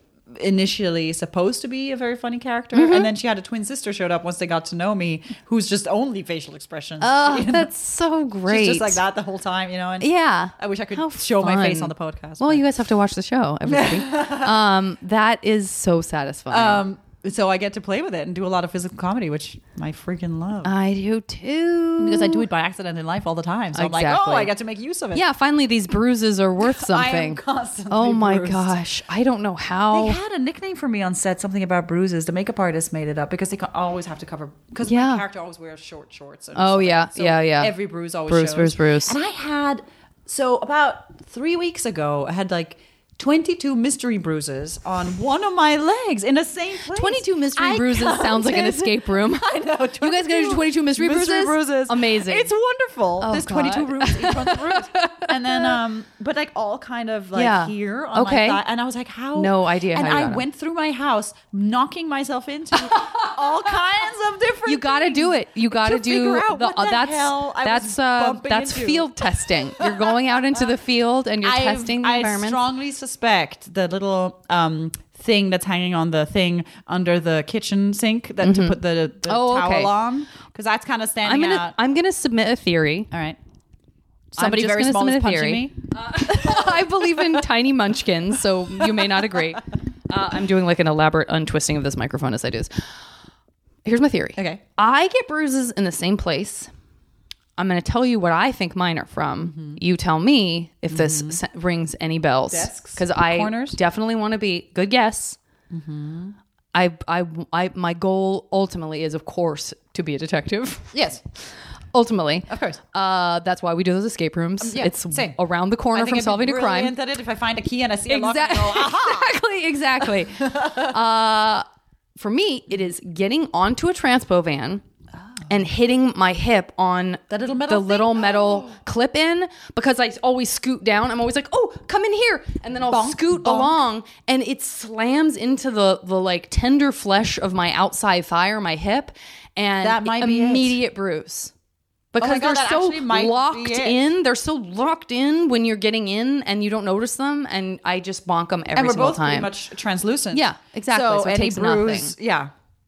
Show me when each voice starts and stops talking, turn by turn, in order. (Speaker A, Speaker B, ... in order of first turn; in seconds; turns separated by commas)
Speaker A: 0.3-7.7, Speaker B: 2.7-3.1, Speaker B: 7.0-9.0, Speaker A: 8.5-12.6, Speaker B: 10.0-16.8, Speaker A: 13.7-14.6, Speaker A: 16.5-20.7, Speaker B: 20.6-22.4, Speaker A: 22.0-25.2, Speaker B: 23.7-24.5, Speaker B: 25.1-30.2, Speaker A: 26.6-28.8, Speaker A: 29.9-70.7, Speaker B: 34.9-35.2, Speaker B: 36.5-37.7, Speaker B: 38.3-39.1, Speaker B: 46.9-52.5, Speaker B: 53.2-55.8, Speaker B: 57.3-58.6, Speaker B: 59.3-60.4, Speaker B: 62.9-63.3, Speaker B: 64.7-72.6, Speaker A: 71.4-81.8, Speaker B: 78.4-79.9, Speaker B: 81.2-83.1, Speaker A: 83.1-83.4, Speaker A: 84.3-87.4, Speaker B: 84.4-92.7, Speaker A: 88.8-89.5, Speaker B: 93.8-96.7, Speaker A: 94.4-94.6, Speaker B: 97.6-105.4, Speaker A: 99.4-99.8, Speaker A: 100.9-101.4, Speaker A: 102.5-103.8, Speaker A: 105.7-106.4, Speaker B: 106.7-111.1, Speaker A: 110.9-111.2, Speaker B: 111.9-116.9, Speaker A: 112.5-112.8, Speaker A: 114.6-115.4, Speaker A: 115.9-119.3, Speaker B: 118.1-121.6, Speaker A: 120.0-121.0, Speaker B: 122.2-124.8, Speaker B: 125.5-141.5, Speaker A: 127.3-128.7, Speaker A: 132.9-133.8, Speaker A: 139.8-140.8, Speaker B: 142.1-149.5, Speaker A: 142.2-144.1, Speaker A: 148.7-152.5, Speaker B: 150.3-152.1